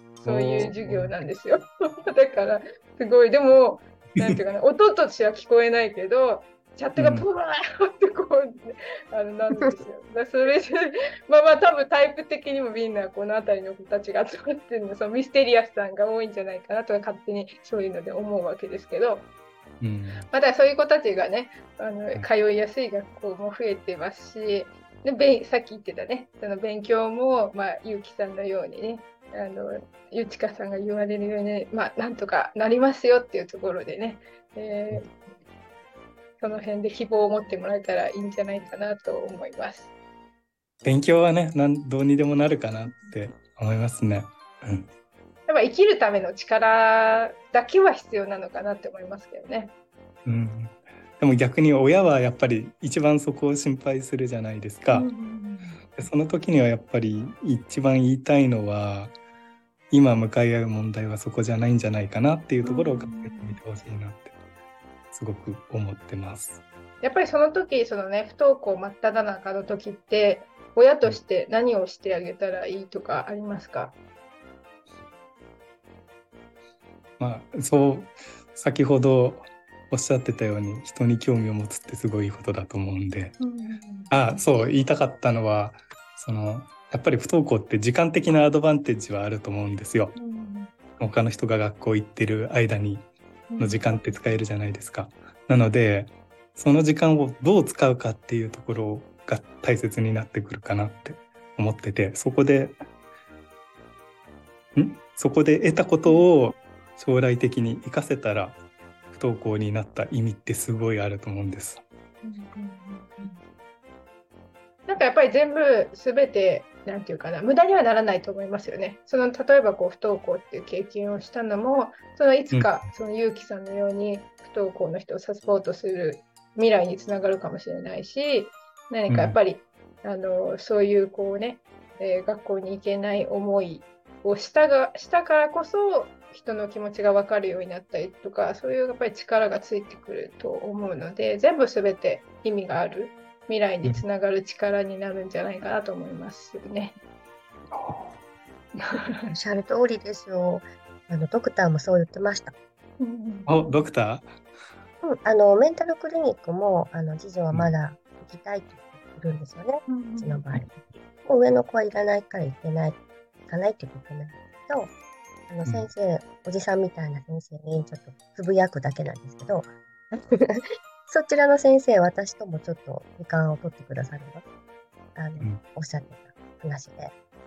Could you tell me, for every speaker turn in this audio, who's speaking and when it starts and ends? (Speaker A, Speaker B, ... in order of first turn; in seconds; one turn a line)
Speaker A: 0.2-19.3
Speaker B: 0.2-1.1
Speaker B: 7.0-7.3
Speaker B: 19.8-20.3
Speaker A: 20.3-35.1
Speaker A: 36.4-39.9
Speaker B: 40.8-44.9
Speaker A: 45.5-49.7
Speaker B: 50.2-55.1
Speaker A: 54.9-55.8
Speaker B: 56.0-59.1
Speaker B: 59.9-64.3
Speaker A: 62.6-63.6
Speaker B: 65.1-66.6
Speaker A: 67.0-74.0
Speaker B: 77.2-83.4
Speaker A: 83.4-84.4
Speaker B: 84.1-90.2
Speaker A: 90.1-90.7
Speaker B: 91.0-93.1
Speaker A: 93.5-94.4
Speaker B: 93.6-102.8
Speaker B: 104.8-108.6
Speaker B: 109.1-111.8
Speaker A: 112.2-113.4
Speaker A: 114.9-147.0
Speaker B: 122.5-122.8
Speaker B: 129.1-129.4
Speaker B: 147.7-148.2
Speaker A: 148.8-149.3
Speaker C: 149.3-152.5
Speaker A: 153.0-153.8
Speaker B: 153.5-154.3
Speaker C: 155.0-160.7
Speaker A: 159.9-160.4
Speaker C: 161.2-164.9
Speaker C: 165.5-174.4
Speaker C: 175.1-177.1